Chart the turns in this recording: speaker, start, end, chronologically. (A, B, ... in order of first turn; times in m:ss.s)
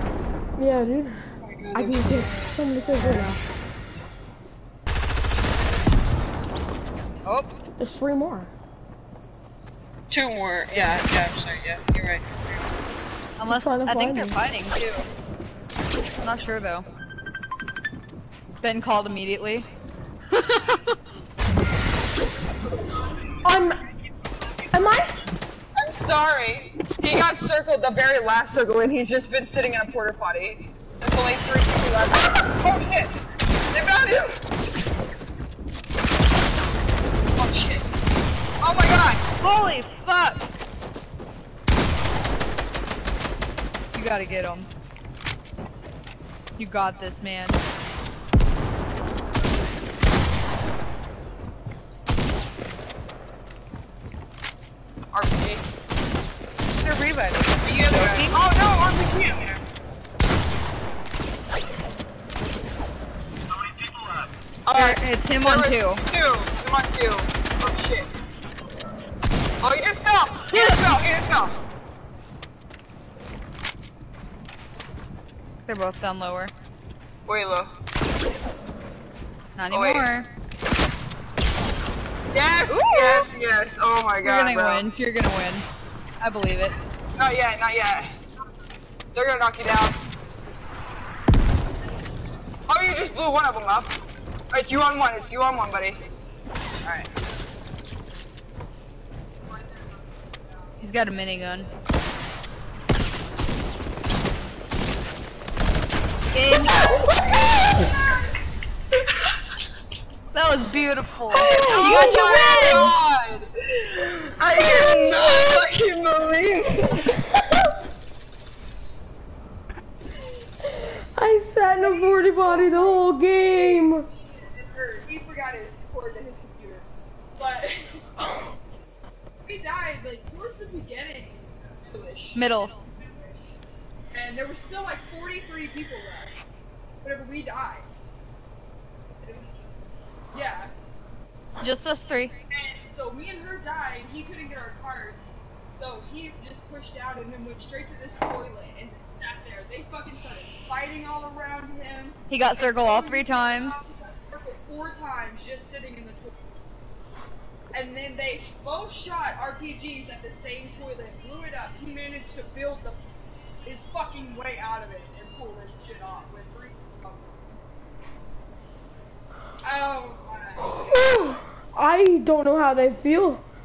0:00.6-0:03.4 A
0:01.4-0:03.4 B
0:07.2-0:07.5 C
0:07.8-0:08.5 A
0:10.1-0:12.4 B
0:13.4-0:15.1 C
0:13.5-0:14.4 A
0:16.2-0:16.8 C
0:18.6-0:19.7 C
0:20.3-0:20.9 C
0:23.4-0:23.8 A
0:24.7-0:25.1 A
0:25.8-0:33.1 B
0:33.7-0:34.4 B
0:37.4-0:37.9 B
0:38.6-0:39.2 B
0:39.4-0:40.5 C
0:43.9-0:44.7 C
0:46.6-0:47.6 C
0:55.1-0:55.7 B
0:56.8-0:58.4 C
0:57.6-0:59.6 B
1:04.7-1:08.1 B
1:04.7-1:06.0 C
1:09.6-1:11.6 B
1:10.5-1:11.0 C
1:15.7-1:16.5 C
1:17.3-1:17.7 B
1:19.6-1:20.3 C
1:19.7-1:20.1 B
1:22.3-1:24.8 B
1:22.7-1:23.3 C
1:24.2-1:25.7 C
1:26.2-1:26.8 C
1:27.2-1:28.1 B
1:29.1-1:30.0 B
1:32.7-1:34.0 B
1:34.5-1:36.0 B
1:36.8-1:37.1 B
1:40.8-1:41.7 C
1:46.3-1:46.8 C
1:50.3-1:52.8 C
1:51.3-1:57.2 B
1:51.5-1:52.9 A
1:54.6-1:55.4 A
1:57.3-1:57.6 A
2:00.6-2:04.1 A
2:01.8-2:03.0 B
2:03.6-2:06.9 B
2:07.4-2:08.2 B
2:08.2-2:08.6 A
2:09.4-2:12.5 B
2:12.4-2:12.8 C
2:14.1-2:16.3 B
2:17.0-2:17.8 B
2:19.2-2:19.5 B
2:20.3-2:20.7 B
2:21.6-2:22.4 C
2:22.6-2:36.4 B
2:32.3-2:33.9 C
2:37.7-2:43.0 B
2:43.6-2:47.3 B
2:49.6-2:50.8 B
2:50.9-2:53.4 A